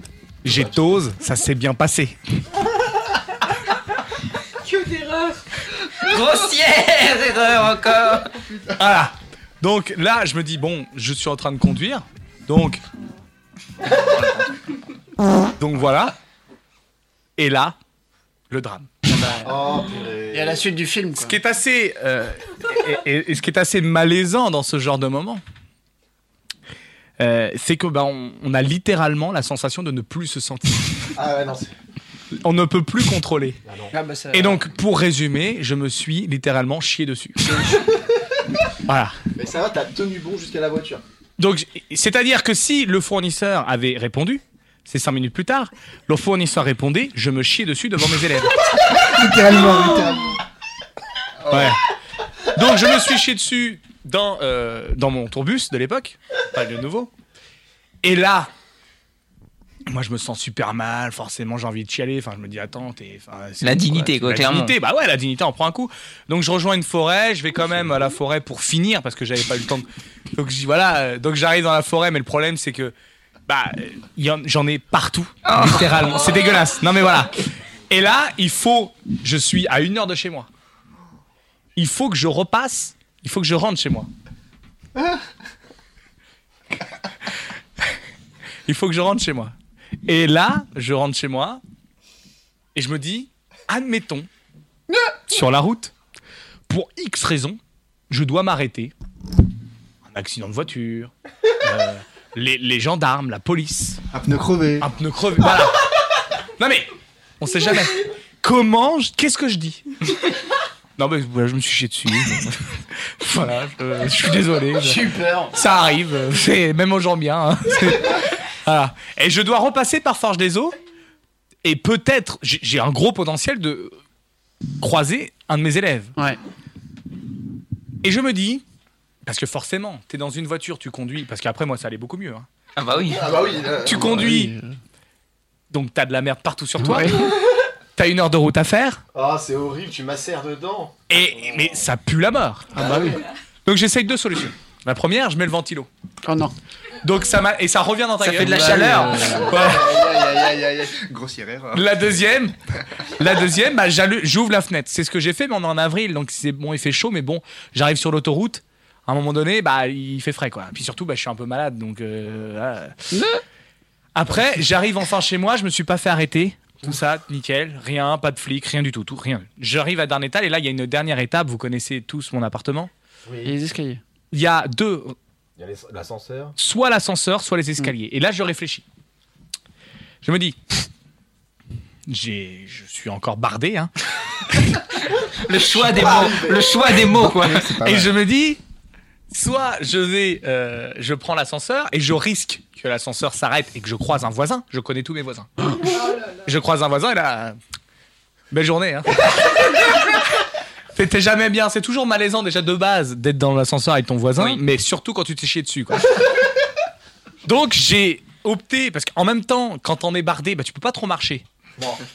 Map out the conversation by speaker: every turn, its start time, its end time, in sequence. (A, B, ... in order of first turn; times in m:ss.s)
0:00.4-0:02.2 A
0:00.5-0:00.7 B
0:06.0-0:08.3 C
0:08.8-0:12.8 A
0:15.6-0:16.2 A
0:17.4-0:17.8 A
0:18.5-0:18.9 A
0:19.1-0:19.5 D
0:19.4-0:20.6 B
0:20.3-0:21.4 D
0:21.2-0:25.4 A
0:27.2-0:31.0 A
0:31.2-0:31.7 B
0:32.4-0:33.6 A
0:33.7-0:33.9 B
0:33.9-0:34.6 D
0:34.3-0:37.5 A
0:38.9-0:39.2 A
0:39.4-0:41.0 B
0:41.4-0:48.5 A
0:49.0-0:50.4 E
0:51.5-0:51.8 A
0:52.5-0:57.1 A
0:58.0-0:58.5 A
0:59.9-1:12.9 A
1:03.6-1:04.7 C
1:13.5-1:20.5 A
1:21.8-1:24.1 A
1:28.7-1:29.5 A
1:30.1-1:31.6 A
1:32.8-1:34.3 A
1:35.3-1:35.9 A
1:36.7-1:37.6 A
1:38.1-1:38.9 A
1:40.1-1:41.1 A
1:41.6-1:44.0 A
1:44.1-1:44.9 E
1:44.8-1:45.8 A
1:46.6-1:50.2 A
1:51.0-2:00.8 A
1:54.8-1:55.6 D
2:01.6-2:03.9 A
2:04.8-2:06.1 A
2:08.0-2:08.6 A
2:09.3-2:12.5 A
2:12.8-2:13.3 C
2:13.1-2:14.2 B
2:13.8-2:14.5 A
2:13.9-2:14.7 D
2:15.7-2:17.3 A
2:16.8-2:17.3 D
2:18.0-2:19.0 A
2:19.1-2:21.0 B
2:21.1-2:22.7 A
2:22.7-2:23.2 D
2:23.7-2:25.9 A
2:26.2-2:26.6 D
2:27.0-2:30.0 A
2:28.2-2:29.6 D
2:28.3-2:29.1 C
2:29.6-2:31.0 B
2:30.9-2:31.9 E
2:31.7-2:32.5 A
2:33.2-2:43.0 A
2:43.1-2:43.4 D
2:44.2-2:52.9 A
2:53.3-2:53.6 B
2:53.4-2:54.0 D
2:54.3-2:55.2 A
2:55.6-2:56.6 B
2:56.6-2:58.8 A
3:00.2-3:00.6 A
3:02.1-3:03.9 A
3:05.4-3:07.8 C
3:05.8-3:06.8 B
3:07.1-3:08.2 E
3:07.8-3:08.6 A
3:09.3-3:15.5 A
3:16.4-3:17.6 A
3:18.5-3:19.3 A
3:21.0-3:26.2 A
3:27.4-3:31.4 A